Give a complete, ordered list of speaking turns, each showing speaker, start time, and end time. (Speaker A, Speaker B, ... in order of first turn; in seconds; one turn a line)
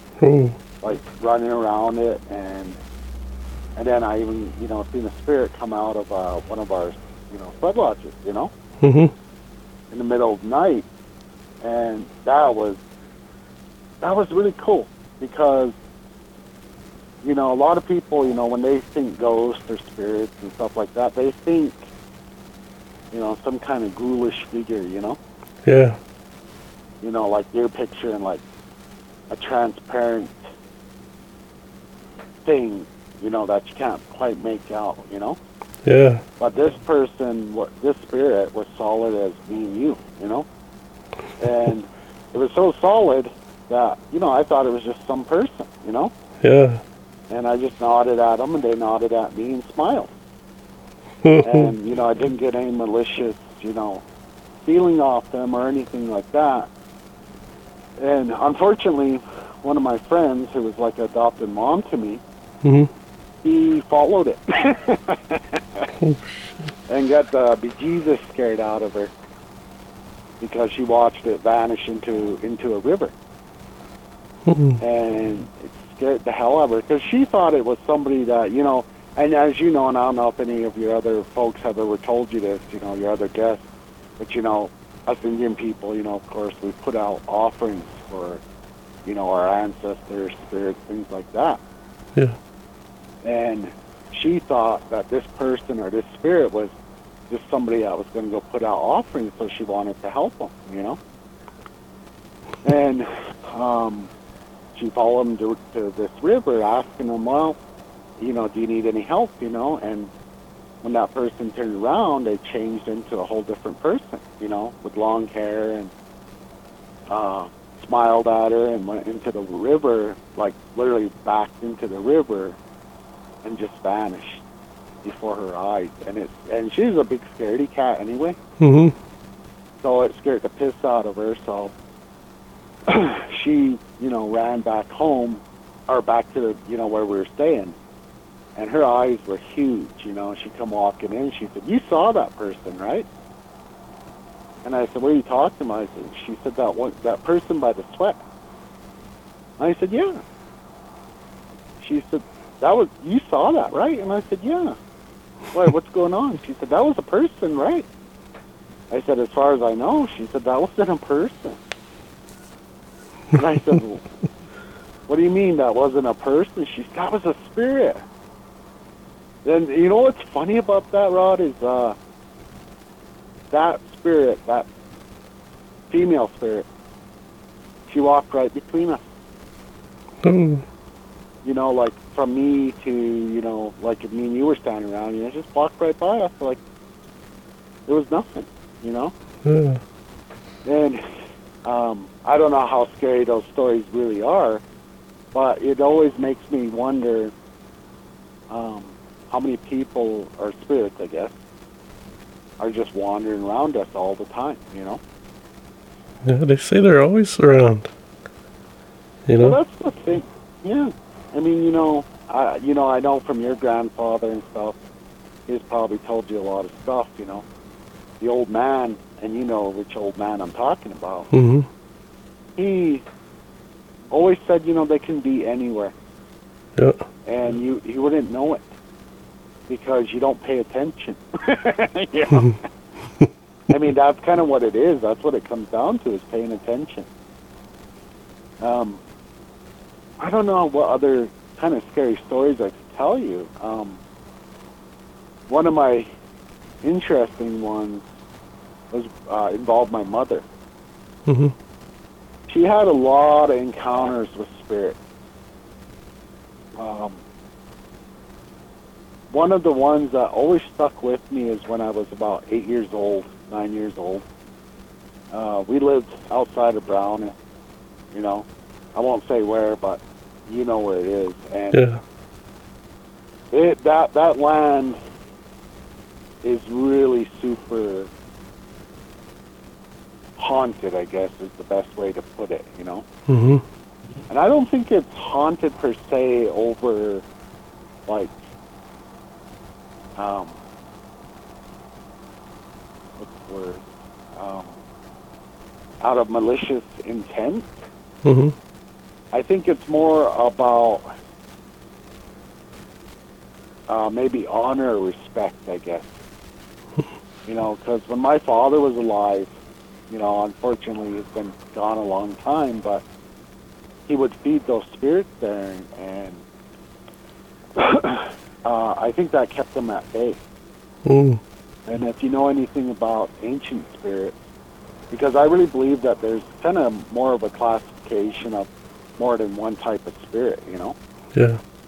Speaker A: 0.2-0.6
Speaker B: 0.8-2.8
Speaker B: 3.8-8.5
Speaker A: 8.8-9.1
Speaker B: 9.9-10.8
Speaker B: 11.6-12.8
Speaker B: 14.0-15.7
Speaker B: 17.2-21.8
Speaker B: 23.1-25.2
Speaker A: 25.6-26.0
Speaker B: 27.0-28.4
Speaker B: 29.3-30.3
Speaker B: 32.4-35.4
Speaker A: 35.8-36.2
Speaker B: 36.4-40.5
Speaker B: 41.4-46.1
Speaker A: 46.4-46.8
Speaker B: 47.3-50.1
Speaker A: 51.2-51.7
Speaker B: 51.4-54.0
Speaker B: 54.6-56.7
Speaker B: 58.0-62.2
Speaker A: 62.6-62.9
Speaker B: 63.4-65.9
Speaker A: 66.0-66.7
Speaker B: 66.9-69.1
Speaker B: 70.4-73.1
Speaker A: 74.5-74.8
Speaker B: 74.8-83.6
Speaker B: 84.2-88.4
Speaker B: 89.0-91.6
Speaker B: 93.2-96.7
Speaker B: 97.3-101.0
Speaker B: 102.6-104.1
Speaker B: 104.7-107.6
Speaker B: 108.2-110.1
Speaker B: 110.8-115.9
Speaker B: 117.1-122.6
Speaker B: 123.4-124.4
Speaker B: 125.0-128.4
Speaker A: 128.6-128.9
Speaker B: 129.8-131.7
Speaker B: 132.9-137.7
Speaker B: 138.6-143.1
Speaker B: 144.6-148.2
Speaker B: 149.6-150.2
Speaker B: 151.8-154.8
Speaker B: 155.5-157.8
Speaker B: 158.9-161.6
Speaker B: 163.3-164.0
Speaker B: 165.1-168.0
Speaker B: 169.4-171.9
Speaker B: 173.5-174.7
Speaker B: 175.9-176.7
Speaker B: 177.9-179.0
Speaker A: 180.2-180.6
Speaker B: 181.4-186.6
Speaker B: 187.9-189.1
Speaker A: 189.4-189.8
Speaker B: 190.6-191.0
Speaker B: 191.6-194.6
Speaker B: 195.3-197.3
Speaker B: 198.5-201.3
Speaker B: 202.6-205.0
Speaker A: 206.2-207.9
Speaker A: 209.3-209.6
Speaker B: 209.4-214.8
Speaker B: 215.5-217.4
Speaker B: 218.2-221.3
Speaker A: 221.3-221.7
Speaker B: 222.6-223.0
Speaker B: 224.1-225.9
Speaker A: 226.8-227.0
Speaker B: 227.2-228.7
Speaker B: 229.7-232.6
Speaker B: 233.7-237.1
Speaker B: 238.6-239.0
Speaker B: 240.2-244.0
Speaker B: 245.5-246.1
Speaker B: 246.8-248.0
Speaker B: 248.9-250.4
Speaker A: 251.3-251.5
Speaker B: 252.5-255.0
Speaker B: 256.8-257.2
Speaker B: 259.3-264.2
Speaker B: 265.3-267.3
Speaker B: 268.1-271.8
Speaker A: 271.7-272.0
Speaker B: 273.5-275.0
Speaker B: 276.4-278.1
Speaker B: 280.4-283.0
Speaker A: 283.3-283.6
Speaker B: 284.3-287.2
Speaker B: 288.1-288.3
Speaker B: 290.2-290.6
Speaker B: 293.2-294.7
Speaker B: 296.0-297.7
Speaker A: 298.2-298.5
Speaker B: 299.3-301.1
Speaker B: 303.9-306.1
Speaker B: 307.4-309.5
Speaker B: 310.1-313.0
Speaker B: 314.1-316.4
Speaker B: 317.8-320.4
Speaker A: 321.0-321.4
Speaker B: 321.9-324.4
Speaker B: 325.1-328.7
Speaker B: 329.2-330.9
Speaker A: 331.3-331.6